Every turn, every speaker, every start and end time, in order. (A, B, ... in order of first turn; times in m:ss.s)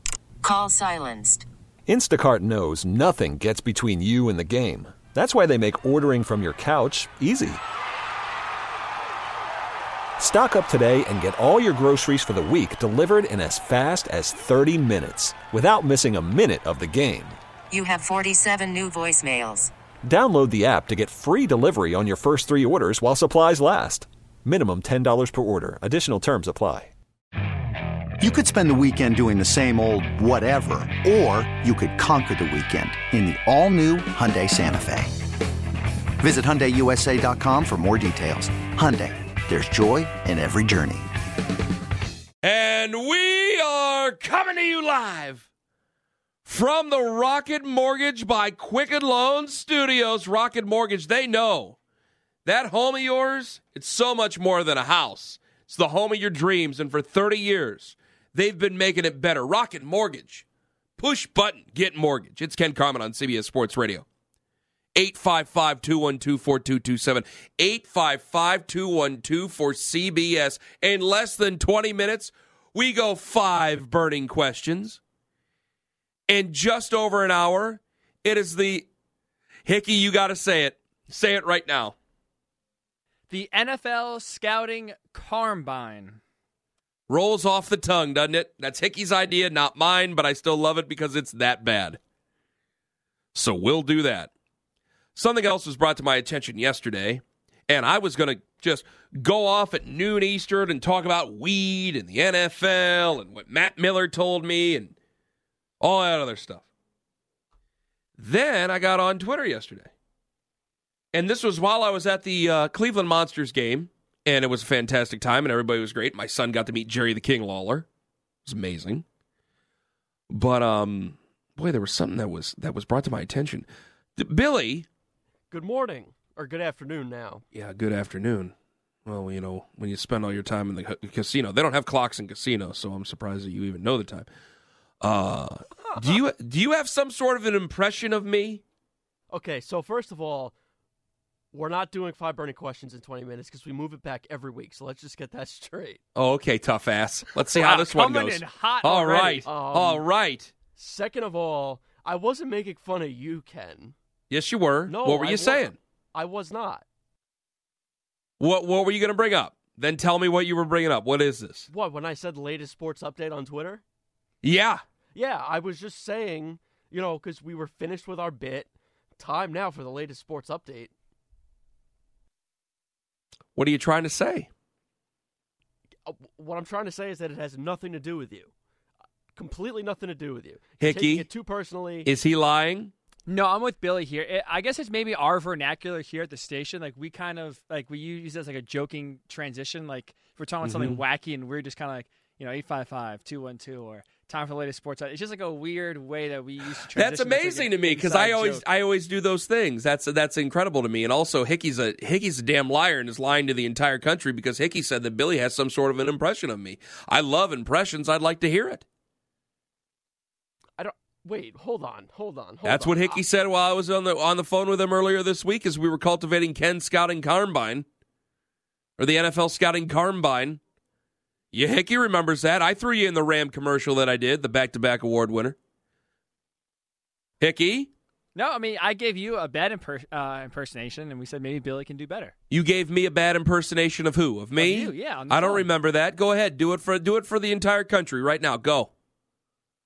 0:00.4-0:01.5 A
0:01.9-0:07.6 B
0:10.2-0:17.4 B
0:17.7-0:19.7 A
0:20.0-0:26.9 B
0:28.2-0:35.2 C
0:36.2-0:41.1 C
0:42.4-0:45.5 D
0:46.5-0:51.8 D
0:52.4-1:00.4 D
1:01.0-1:04.0 D
1:05.0-1:15.0 D
1:16.3-1:18.9 D
1:19.6-1:22.0 D
1:23.3-1:26.2 E
1:27.1-1:32.0 D
1:33.3-1:34.3 D
1:35.2-1:45.0 D
1:45.8-1:46.6 D
1:48.2-1:49.9 D
1:51.1-1:57.9 D
1:58.4-1:59.0 D
2:00.3-2:04.9 D
2:05.5-2:07.4 F
2:07.5-2:08.5 D
2:09.1-2:14.3 D
2:15.0-2:18.6 D
2:19.3-2:20.6 F
2:21.5-2:26.0 F
2:26.2-2:30.5 D
2:27.6-2:29.5 E
2:29.4-2:30.0 F
2:30.8-2:34.0 F
2:34.3-2:35.8 D
2:34.9-2:36.8 F
2:38.4-2:41.7 D
2:41.7-2:43.8 F
2:44.4-2:44.8 D
2:45.2-2:50.9 F
2:53.6-2:54.5 D
2:56.0-2:58.5 F
2:59.4-3:02.1 F
3:00.8-3:01.3 D
3:02.0-3:02.9 D
3:03.3-3:18.6 E
3:10.6-3:11.0 D
3:17.0-3:28.8 D
3:30.8-3:33.2 F
3:32.6-3:37.9 D
3:39.0-3:40.6 D
3:41.5-3:45.6 D
3:47.4-3:47.9 D
3:48.4-3:52.3 E
3:52.5-3:58.9 D
3:54.6-3:55.7 E